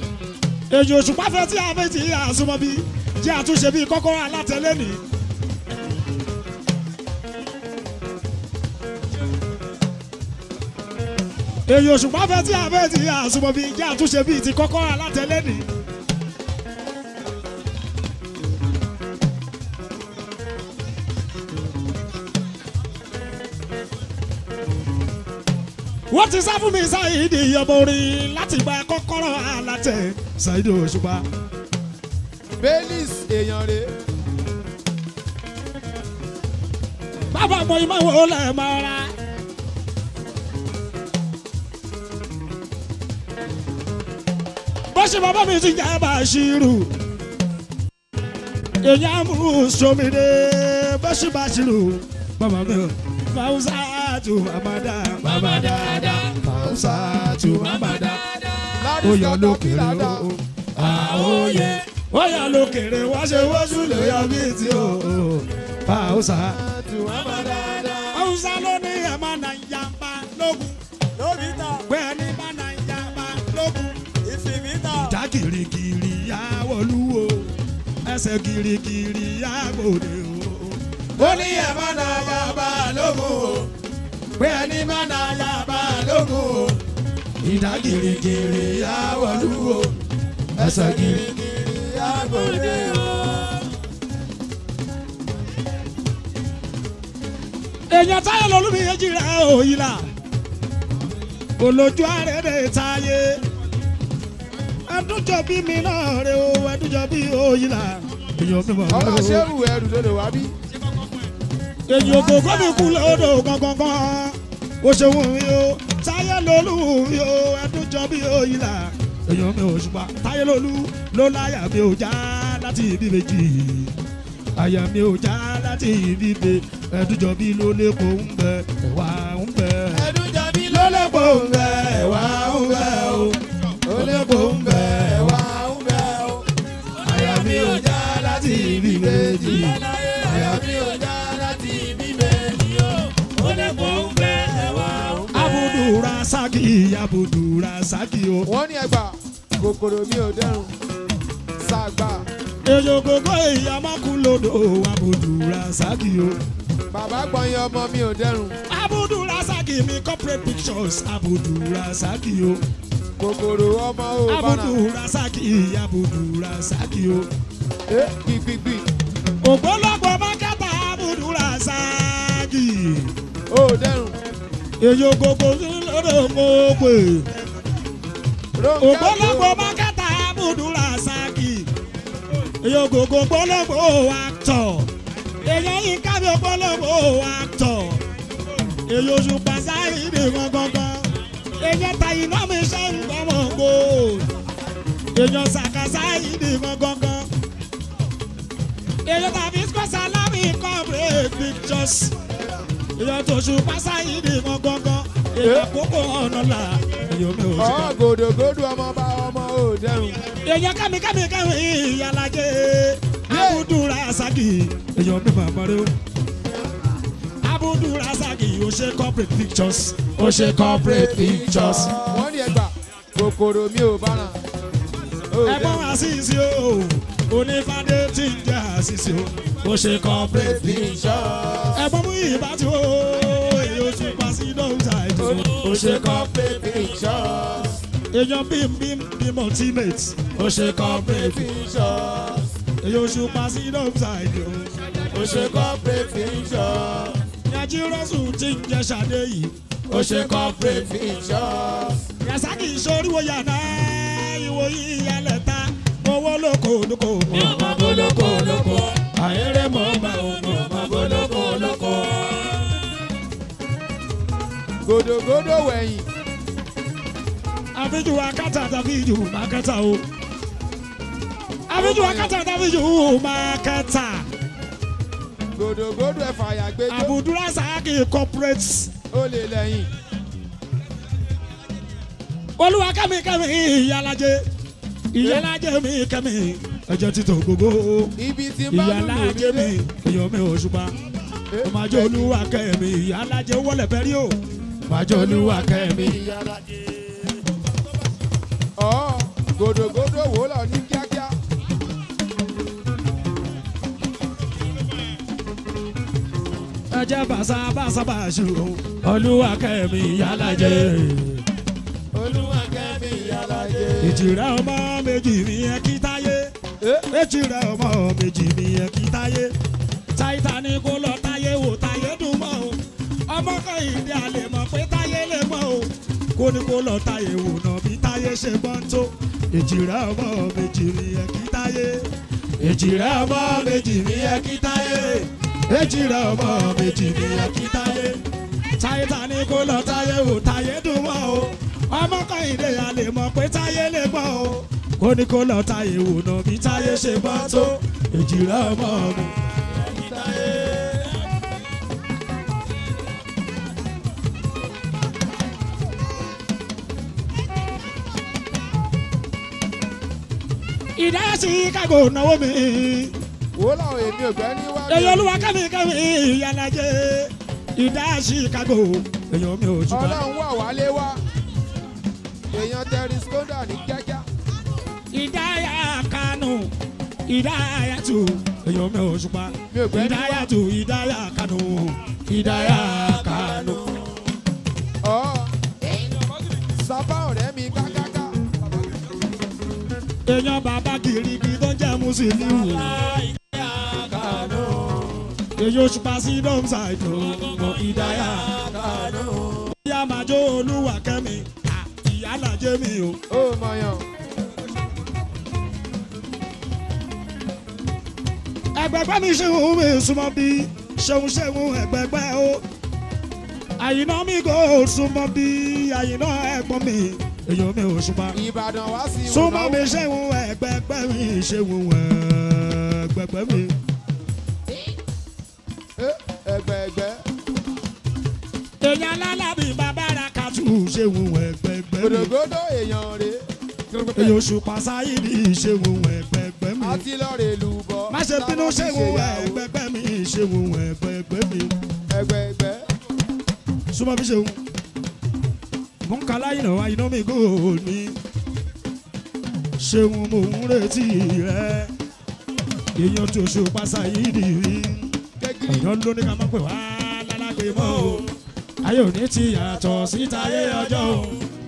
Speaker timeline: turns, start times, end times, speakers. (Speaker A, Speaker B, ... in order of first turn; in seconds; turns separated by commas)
Speaker A: 0.7-5.0, Speaker A: 11.7-15.7, Speaker A: 26.1-31.2, Speaker B: 32.6-33.9, Speaker A: 37.3-39.1, Speaker A: 44.9-46.9, Speaker A: 48.8-58.2, Speaker B: 55.6-56.2, Speaker B: 58.7-60.3, Speaker A: 59.0-66.6, Speaker B: 63.6-64.3, Speaker B: 66.4-68.2, Speaker A: 68.1-70.8, Speaker C: 71.2-71.8, Speaker A: 71.9-74.0, Speaker C: 74.2-75.1, Speaker A: 74.9-77.5, Speaker A: 78.0-82.6, Speaker B: 81.2-83.6, Speaker A: 84.4-86.3, Speaker A: 87.4-89.9, Speaker A: 90.6-91.3, Speaker B: 90.6-93.2, Speaker C: 92.2-93.2, Speaker A: 97.9-100.0, Speaker A: 101.6-103.4, Speaker A: 104.9-109.4, Speaker B: 108.9-110.5, Speaker A: 111.9-123.9, Speaker B: 112.4-113.3, Speaker A: 124.6-130.1, Speaker B: 129.9-131.4, Speaker A: 130.7-133.4, Speaker B: 133.8-136.4, Speaker A: 133.9-135.4, Speaker A: 137.0-140.6, Speaker B: 138.5-142.6, Speaker C: 139.5-141.0, Speaker C: 142.6-145.3, Speaker A: 145.3-148.5, Speaker B: 148.4-150.7, Speaker B: 151.6-152.2, Speaker A: 152.6-156.4, Speaker B: 156.9-158.6, Speaker A: 158.7-162.6, Speaker B: 163.2-164.8, Speaker A: 164.3-167.3, Speaker B: 167.9-168.9, Speaker A: 169.4-173.1, Speaker B: 173.5-174.2, Speaker A: 174.8-177.3, Speaker B: 178.6-179.8, Speaker A: 178.8-181.7, Speaker A: 182.6-184.9, Speaker A: 185.4-188.0, Speaker A: 188.9-194.2, Speaker A: 195.1-197.3, Speaker A: 199.0-202.1, Speaker A: 203.0-207.9, Speaker B: 205.4-205.7, Speaker B: 207.6-210.2, Speaker A: 210.4-215.9, Speaker B: 213.3-213.7, Speaker A: 217.4-221.9, Speaker C: 221.3-221.8, Speaker B: 222.0-224.4, Speaker B: 225.3-225.9, Speaker A: 225.4-230.8, Speaker B: 230.3-231.7, Speaker A: 231.7-236.2, Speaker B: 235.3-237.8, Speaker A: 238.1-241.5, Speaker B: 240.7-242.5, Speaker A: 242.8-244.7, Speaker B: 245.1-247.2, Speaker A: 247.5-250.9, Speaker B: 249.9-252.0, Speaker A: 252.2-262.1, Speaker C: 257.4-258.7, Speaker B: 257.5-258.8, Speaker B: 264.8-266.1, Speaker A: 267.7-270.0, Speaker A: 271.7-274.2, Speaker B: 271.7-272.3, Speaker B: 275.5-277.1, Speaker A: 276.9-278.9, Speaker B: 279.1-279.9, Speaker A: 282.6-284.4, Speaker A: 285.1-288.1, Speaker B: 288.2-289.7, Speaker A: 288.7-290.9, Speaker B: 291.5-292.4, Speaker A: 291.6-296.2, Speaker B: 295.2-296.6, Speaker B: 298.8-301.3, Speaker A: 306.9-311.4, Speaker B: 312.1-314.2, Speaker A: 314.0-316.5, Speaker B: 316.8-317.1, Speaker A: 317.1-319.5, Speaker A: 320.1-332.1, Speaker A: 332.6-338.2, Speaker A: 338.8-349.3, Speaker C: 346.9-347.7, Speaker C: 349.8-351.1, Speaker A: 361.0-363.1, Speaker B: 363.6-365.6, Speaker A: 364.9-370.2, Speaker B: 369.9-371.2, Speaker B: 372.5-374.2, Speaker A: 375.1-376.7, Speaker A: 377.3-383.8, Speaker B: 379.7-380.5, Speaker B: 385.0-385.5, Speaker B: 386.7-388.4, Speaker A: 390.2-392.9, Speaker C: 392.6-395.2, Speaker A: 395.6-398.5, Speaker C: 397.6-399.4, Speaker A: 399.7-403.2, Speaker B: 403.3-404.1, Speaker A: 408.7-412.6, Speaker A: 413.8-418.4, Speaker B: 418.3-419.9, Speaker A: 419.3-423.8, Speaker B: 426.0-427.2, Speaker A: 428.8-432.3, Speaker B: 432.0-434.4, Speaker A: 434.1-437.0, Speaker B: 436.8-439.6, Speaker A: 438.1-441.7, Speaker B: 442.1-442.8, Speaker A: 443.9-444.6, Speaker A: 446.0-448.1, Speaker A: 449.8-451.9, Speaker A: 452.9-455.1, Speaker B: 455.4-455.9, Speaker A: 455.7-458.2, Speaker A: 458.8-461.4, Speaker C: 460.6-461.0